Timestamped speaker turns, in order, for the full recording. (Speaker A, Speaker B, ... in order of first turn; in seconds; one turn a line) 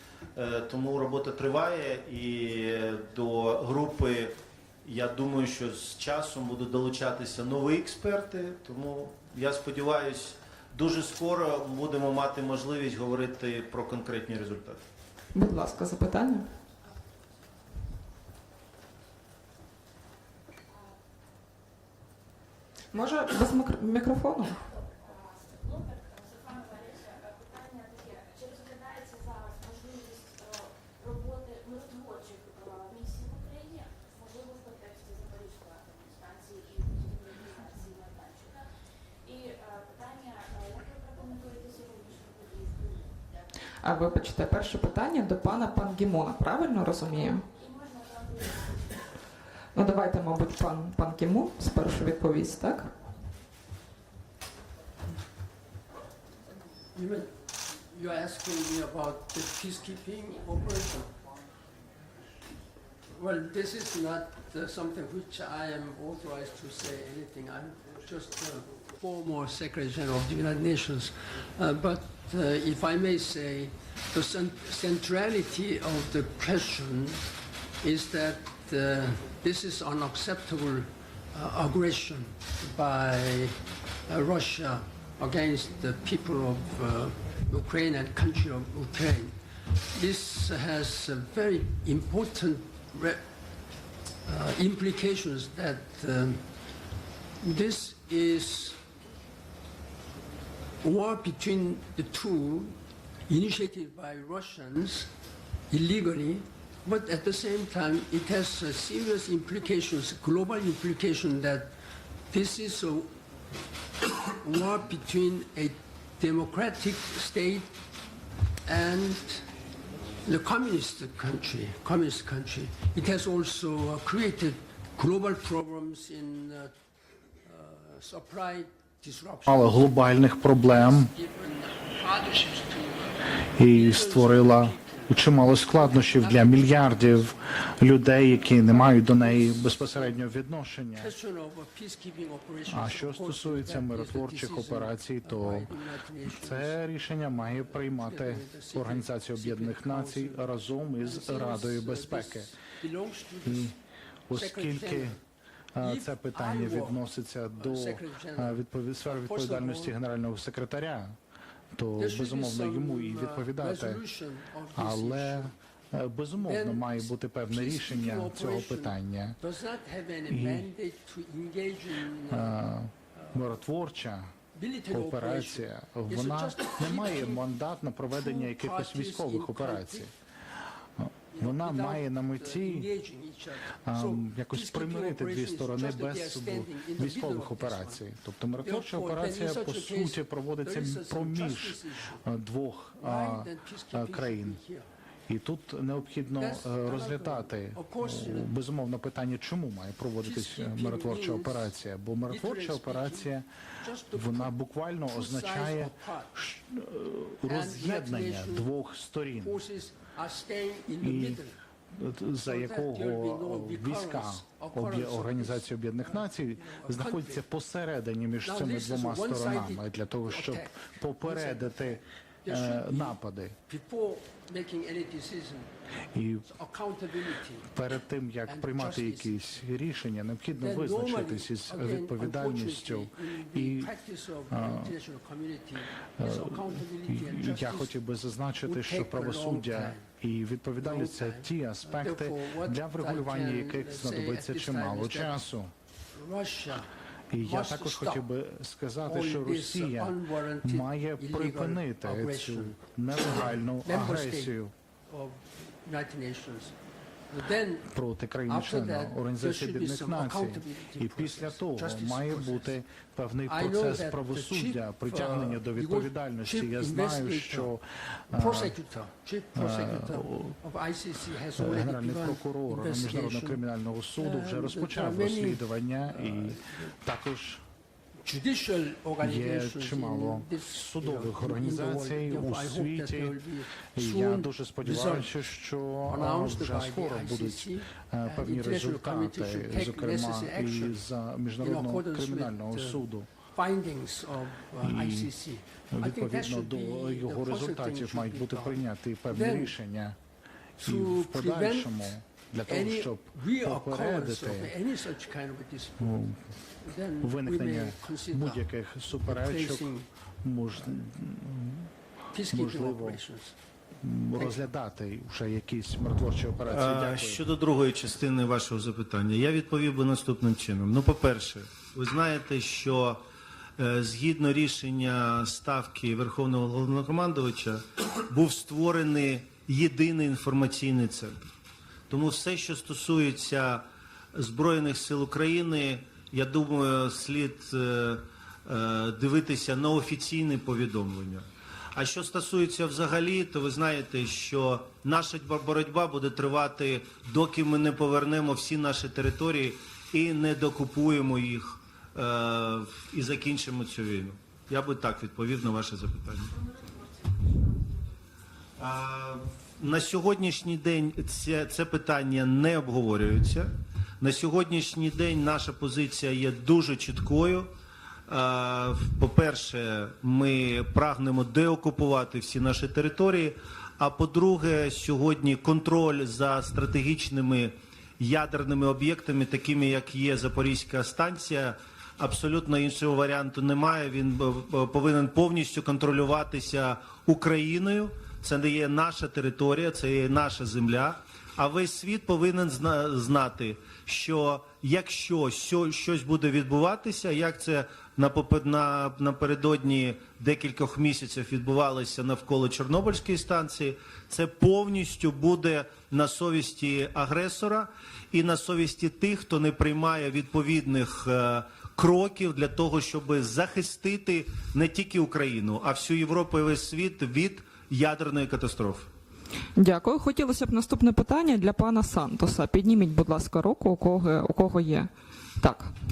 Speaker A: 0.3-14.8
Speaker B: 15.3-16.4
Speaker C: 16.8-17.7
Speaker C: 20.7-21.0
Speaker B: 22.9-24.6
Speaker C: 24.6-38.7
Speaker C: 39.2-43.4
Speaker B: 43.8-47.4
Speaker C: 47.4-49.0
Speaker B: 49.7-52.9
Speaker D: 56.9-61.1
Speaker D: 63.1-77.3
Speaker D: 77.8-89.3
Speaker D: 89.9-93.2
Speaker D: 94.2-96.5
Speaker D: 97.4-98.8
Speaker D: 100.8-105.1
Speaker D: 105.7-111.7
Speaker D: 112.3-113.1
Speaker D: 114.0-117.7
Speaker D: 118.7-119.5
Speaker D: 120.2-126.7
Speaker D: 127.4-140.2
Speaker E: 129.5-131.1
Speaker E: 133.6-141.1
Speaker D: 140.9-146.8
Speaker E: 142.7-145.7
Speaker E: 146.3-152.5
Speaker D: 147.5-150.4
Speaker D: 151.0-153.8
Speaker E: 153.4-153.8
Speaker E: 154.3-155.2
Speaker D: 154.3-155.2
Speaker E: 155.8-161.2
Speaker D: 155.8-157.0
Speaker D: 157.6-159.9
Speaker E: 161.7-164.0
Speaker D: 162.0-165.5
Speaker E: 164.7-169.4
Speaker D: 166.4-172.6
Speaker E: 170.3-170.7
Speaker E: 172.3-174.3
Speaker D: 173.1-173.5
Speaker D: 174.5-177.4
Speaker E: 174.9-180.1
Speaker D: 178.1-180.1
Speaker E: 181.0-182.9
Speaker D: 181.3-188.0
Speaker E: 183.9-194.6
Speaker D: 188.6-192.2
Speaker D: 193.0-194.9
Speaker E: 195.3-203.5
Speaker D: 196.4-198.5
Speaker D: 200.2-201.7
Speaker D: 202.3-204.5
Speaker E: 204.1-209.6
Speaker D: 205.1-206.3
Speaker D: 207.4-208.7
Speaker D: 209.4-211.6
Speaker E: 211.0-211.4
Speaker E: 211.9-223.6
Speaker D: 212.4-217.4
Speaker D: 218.4-225.7
Speaker E: 226.1-226.5
Speaker D: 226.4-227.7
Speaker E: 227.7-233.9
Speaker D: 228.5-229.6
Speaker D: 230.6-237.9
Speaker E: 234.5-234.9
Speaker E: 236.2-245.7
Speaker D: 238.6-240.1
Speaker D: 240.8-245.4
Speaker D: 246.1-248.3
Speaker E: 247.3-254.7
Speaker D: 249.1-254.5
Speaker D: 255.1-256.8
Speaker D: 257.3-257.9
Speaker E: 257.9-268.8
Speaker D: 258.5-262.7
Speaker D: 263.5-267.7
Speaker D: 268.3-273.6
Speaker E: 269.6-270.6
Speaker E: 271.6-277.6
Speaker D: 274.2-276.9
Speaker D: 278.2-285.3
Speaker E: 279.2-283.4
Speaker E: 283.9-293.3
Speaker D: 286.1-291.0
Speaker D: 291.6-293.0
Speaker D: 293.5-298.8
Speaker E: 294.8-295.3
Speaker E: 295.9-300.2
Speaker D: 299.3-299.7
Speaker E: 300.8-304.7
Speaker D: 300.8-302.0
Speaker D: 302.6-306.1
Speaker E: 306.0-306.4
Speaker D: 306.8-308.7
Speaker E: 307.2-309.9
Speaker D: 309.2-310.1
Speaker E: 310.4-311.9
Speaker D: 312.3-313.5
Speaker E: 312.5-313.2
Speaker E: 314.0-317.4
Speaker D: 314.4-314.7
Speaker A: 316.7-323.2
Speaker A: 323.8-331.5
Speaker A: 332.1-356.5
Speaker C: 356.5-358.0
Speaker A: 358.8-367.7
Speaker A: 368.3-419.1
Speaker B: 419.8-425.9